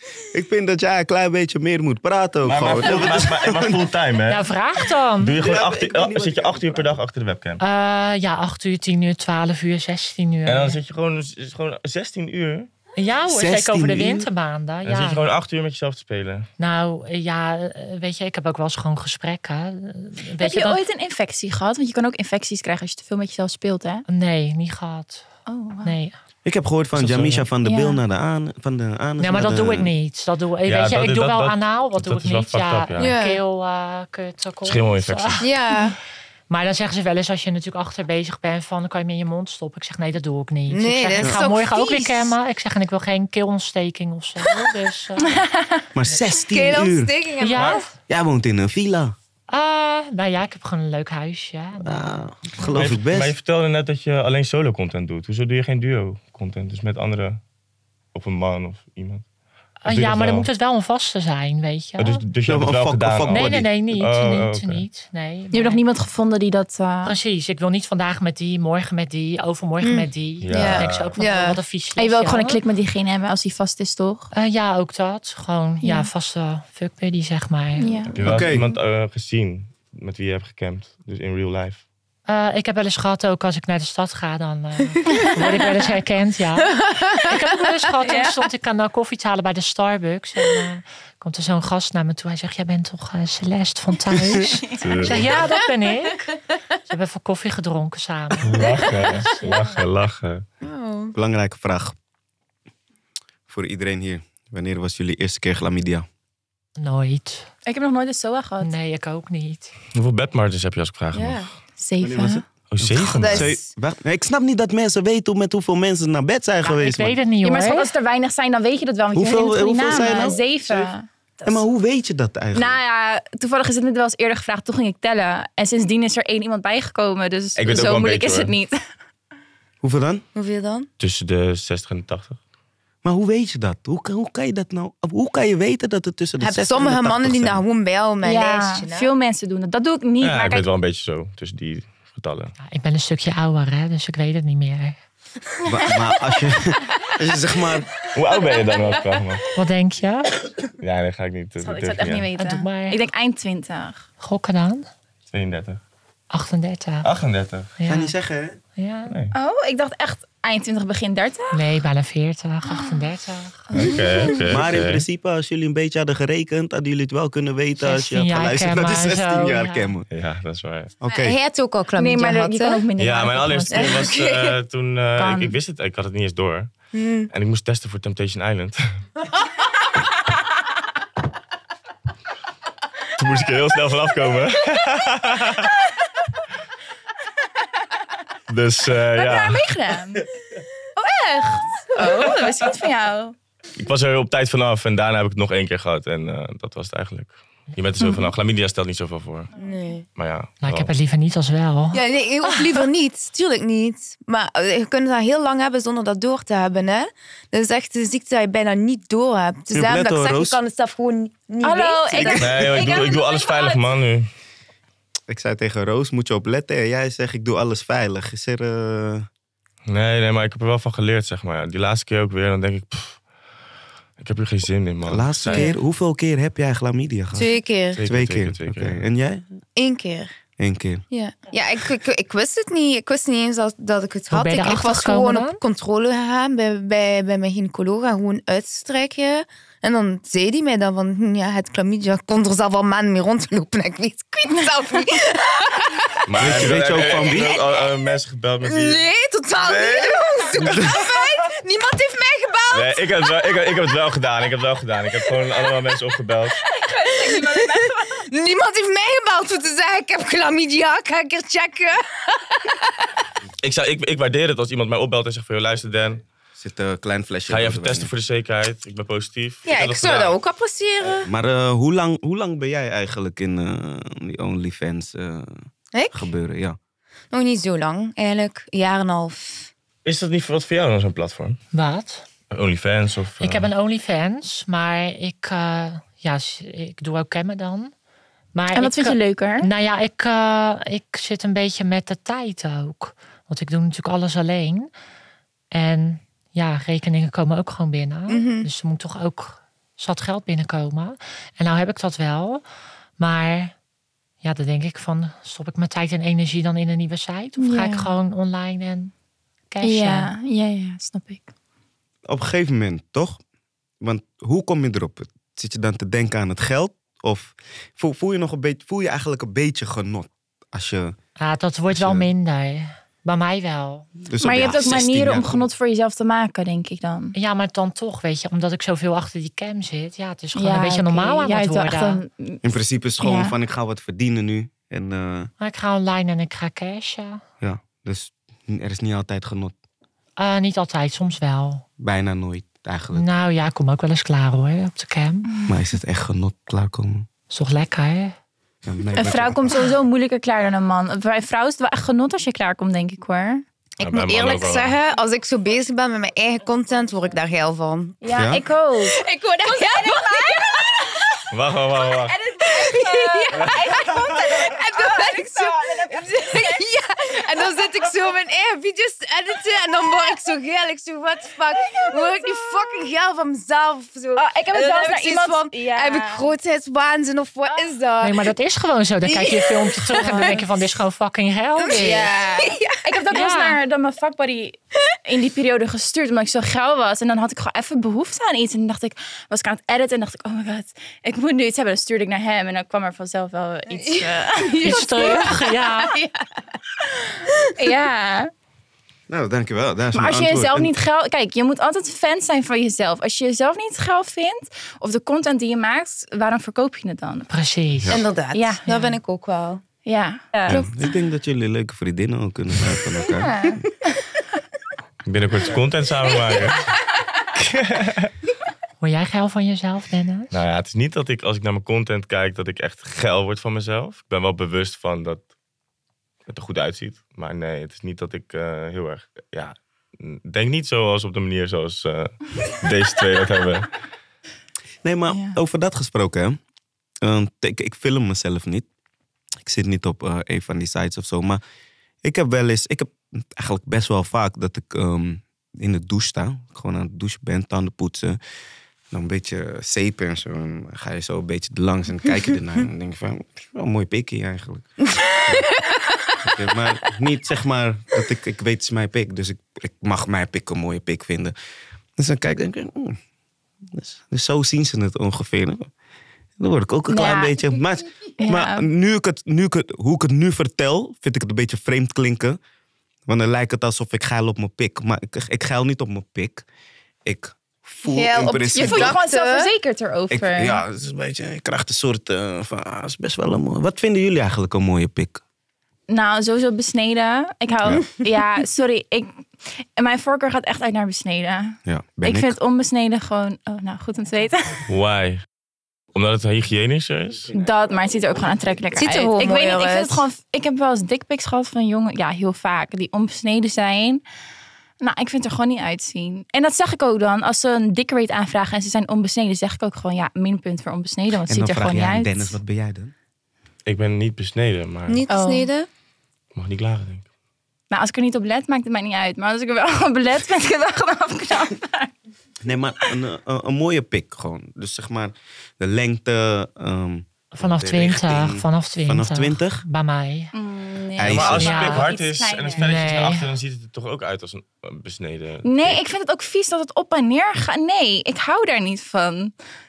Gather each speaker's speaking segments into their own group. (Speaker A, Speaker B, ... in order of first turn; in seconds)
Speaker A: 0.3-3.8, 5.3-7.0, 13.3-14.3, 26.4-29.9, 46.0-47.1, 48.1-49.1, 51.8-53.4, 62.5-63.7, 78.2-78.6, 101.1-102.0, 103.5-106.1, 112.0-117.2, 119.1-120.9, 121.5-122.8, 129.8-130.2, 133.0-137.6, 145.7-147.9, 157.9-158.6, 164.5-170.1, 171.0-171.4, 209.7-210.6, 215.3-219.3, 225.1-227.5, 228.0-229.4, 230.6-231.0, 246.4-247.6, 250.6-250.9, 266.6-268.1, 271.2-275.5, 276.1-276.8, 312.3-313.4, 314.0-321.2, 321.9-322.3, 324.3-325.7, 332.6-335.5, 337.6-339.7, 342.0-343.3, 345.7-347.3, 348.9-349.9, 358.4-358.6, 399.3-400.9, 410.7-413.8, 435.0-436.6, 437.2-438.9, 439.6-441.6, 442.2-448.4, 449.1-454.9, 456.4-461.5, 462.2-463.2, 463.9-465.9, 466.6-472.6, 473.3-476.6, 477.3-479.2, 480.3-485.4, 491.9-492.6, 511.5-513.1, 522.6-529.8, 531.2-531.7
Speaker B: 2.5-4.5, 5.2-7.6, 10.5-12.7, 14.8-16.5, 26.9-27.5, 30.7-33.1, 34.6-35.5, 52.8-57.4, 58.1-59.2, 59.9-60.5, 62.0-64.8, 70.4-71.1, 78.1-81.8, 94.8-95.3, 98.4-100.5, 109.9-111.5, 112.7-113.6, 127.6-128.5, 131.0-132.4, 140.2-142.6, 148.1-149.5, 150.8-152.3, 155.3-155.8, 157.0-157.7, 159.1-159.3, 163.7-165.1, 170.1-170.9, 173.0-178.9, 183.2-185.7, 188.5-189.7, 193.8-199.5, 200.2-200.9, 212.3-214.3, 219.9-223.2, 224.2-225.7, 227.9-229.0, 246.3-249.1, 249.6-251.0, 252.7-256.6, 263.6-266.2, 267.5-270.4, 280.1-281.6, 282.5-283.7, 354.0-355.0, 361.5-362.4, 415.2-416.9, 417.6-418.3, 420.5-425.4, 426.5-433.9, 494.9-495.4, 496.1-497.5, 513.9-515.2, 516.5-517.3, 531.2-536.0
Speaker C: 4.3-5.4, 7.6-10.8, 13.0-15.2, 16.6-20.8, 24.1-25.3, 25.8-26.1, 29.2-35.5, 36.5-45.5, 47.4-47.9, 49.5-52.8, 59.8-62.2, 63.3-65.8, 67.0-72.6, 74.3-78.1, 82.3-96.3, 96.9-99.7, 106.8-107.5, 108.6-109.7, 116.6-117.9, 142.6-145.0, 149.6-150.3, 152.4-153.0, 154.2-154.9, 156.3-157.1, 157.8-158.2, 158.8-159.2, 161.5-163.9, 167.8-169.9, 200.6-202.8, 234.3-235.6, 281.7-282.3, 283.4-287.9, 288.5-294.9, 295.7-302.6, 303.2-303.7, 304.4-309.1, 309.7-310.3, 321.4-324.1, 327.4-332.2, 335.6-337.4, 340.4-341.9, 343.1-345.5, 347.5-348.4, 378.2-382.3, 383.3-383.8, 394.8-396.1, 407.5-408.2, 419.0-420.6, 527.5-530.5, 531.5-532.1, 532.8-533.5
Speaker D: 20.4-24.1, 25.5-25.9, 27.6-28.0, 45.2-45.9, 65.5-67.2, 72.0-74.3, 75.8-76.1, 77.8-78.2, 85.1-85.8, 88.0-88.4, 94.4-95.3, 107.7-108.7, 111.8-112.5, 117.4-121.6, 122.5-128.8, 138.2-140.7, 151.6-154.1, 159.3-161.7, 162.7-163.0, 163.7-164.1, 172.0-174.1, 175.2-175.6, 189.1-190.3, 191.0-193.3, 198.0-198.3, 211.6-213.8, 256.7-258.1, 288.7-289.7, 307.6-308.1, 309.8-311.5, 324.4-327.4, 330.6-332.6, 333.2-333.6, 345.5-345.8, 349.1-353.6, 358.2-361.0, 362.3-366.8, 374.4-376.5, 380.2-380.7, 381.9-395.6, 397.8-398.5, 400.1-407.5, 408.5-409.1, 410.1-410.9, 413.3-413.8, 435.3-435.6, 467.1-467.6, 468.4-468.9, 478.7-480.8, 486.1-494.9, 497.5-504.2, 505.0-512.6, 515.3-515.7, 517.9-522.1, 530.5-533.1, 535.6-539.5
Speaker E: 33.0-33.4, 35.4-36.0, 40.7-42.4, 46.4-47.9, 69.8-71.6, 86.7-87.3, 98.6-99.2, 100.6-101.2, 111.1-111.5, 113.1-113.7, 130.3-130.9, 136.4-139.1, 171.1-172.8, 173.7-174.6, 176.9-177.3, 199.6-200.1, 201.9-213.2, 227.3-228.0, 229.8-230.3, 231.1-247.9, 248.6-253.0, 257.1-263.1, 269.7-271.3, 275.9-276.3, 277.3-279.7, 298.3-298.7, 354.0-358.5, 359.0-361.4, 362.6-378.5, 379.2-380.6, 381.9-383.2, 394.0-396.5, 397.2-397.7, 408.1-409.8, 455.2-456.0, 478.1-479.7, 499.0-500.2, 515.1-515.9